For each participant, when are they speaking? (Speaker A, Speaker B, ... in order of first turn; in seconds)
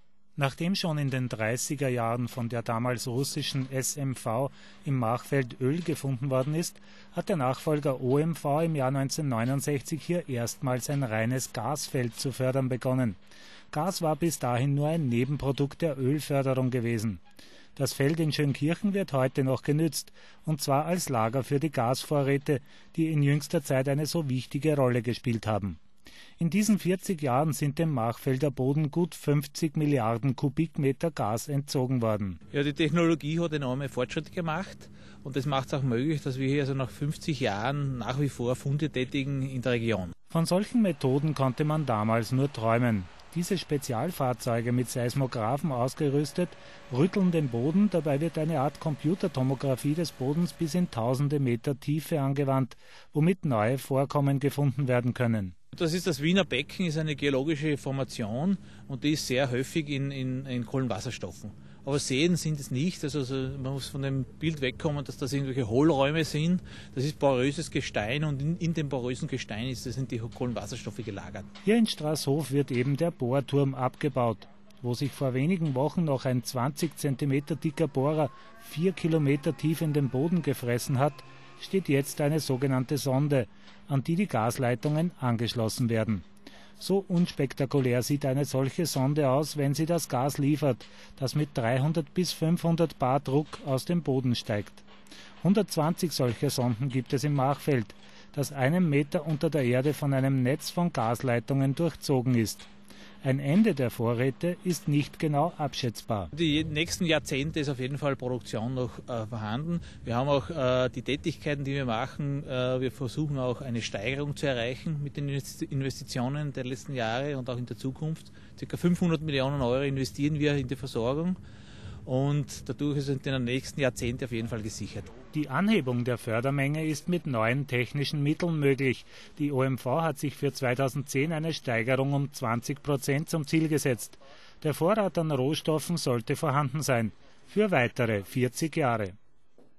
Speaker A: 0.4-13.2, 13.7-17.2, 17.8-25.8, 26.4-32.4, 40.3-55.5, 71.7-86.2, 86.8-94.9, 95.4-102.7, 103.2-106.3, 125.3-139.1
Speaker B: 32.5-40.1, 55.8-71.5, 106.3-121.4, 122.1-125.1